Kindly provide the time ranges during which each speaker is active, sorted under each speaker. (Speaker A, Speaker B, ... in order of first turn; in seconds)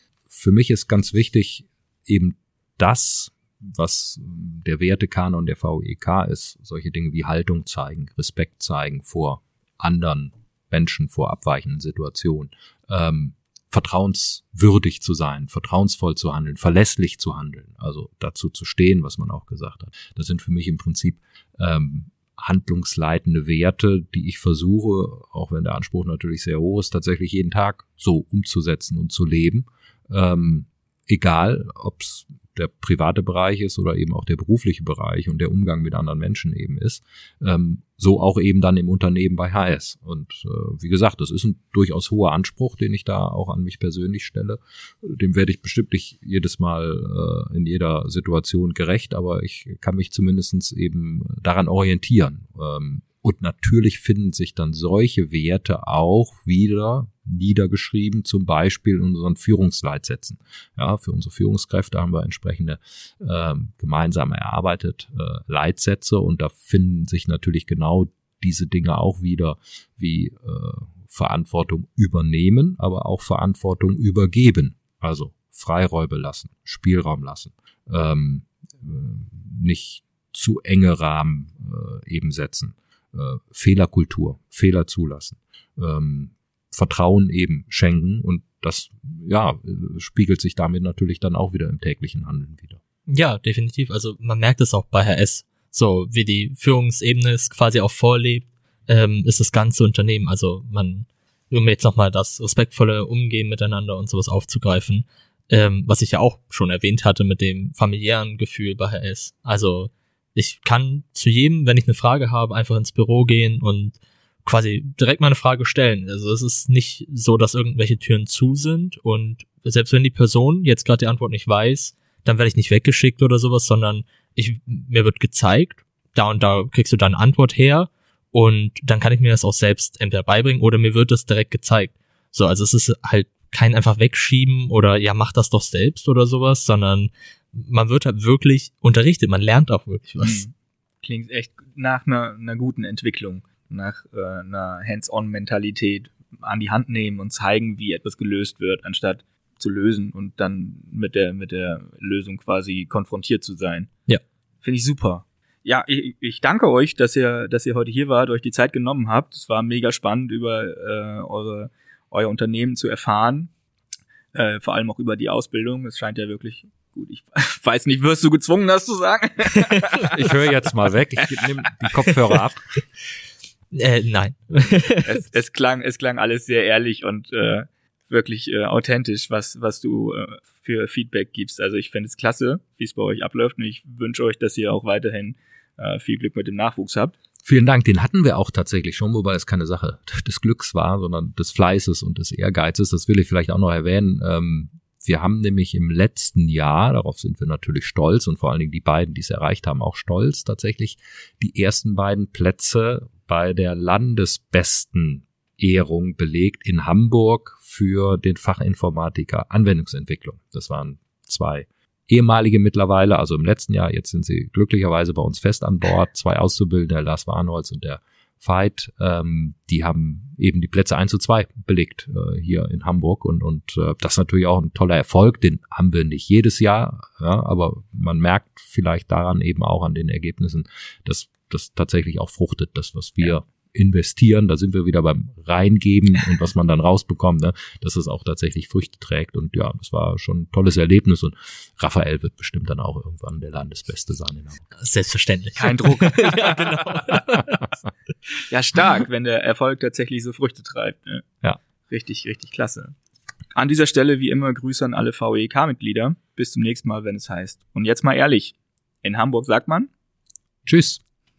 Speaker A: 0.3-92.8, 170.1-172.6, 187.4-244.7, 247.1-247.4, 260.6-261.0
Speaker B: 93.1-140.4, 173.7-175.2, 244.8-247.6
Speaker C: 140.2-153.9, 154.6-163.5, 164.3-170.4, 175.0-187.2, 245.6-246.9, 248.5-251.3, 251.9-252.9, 253.5-259.9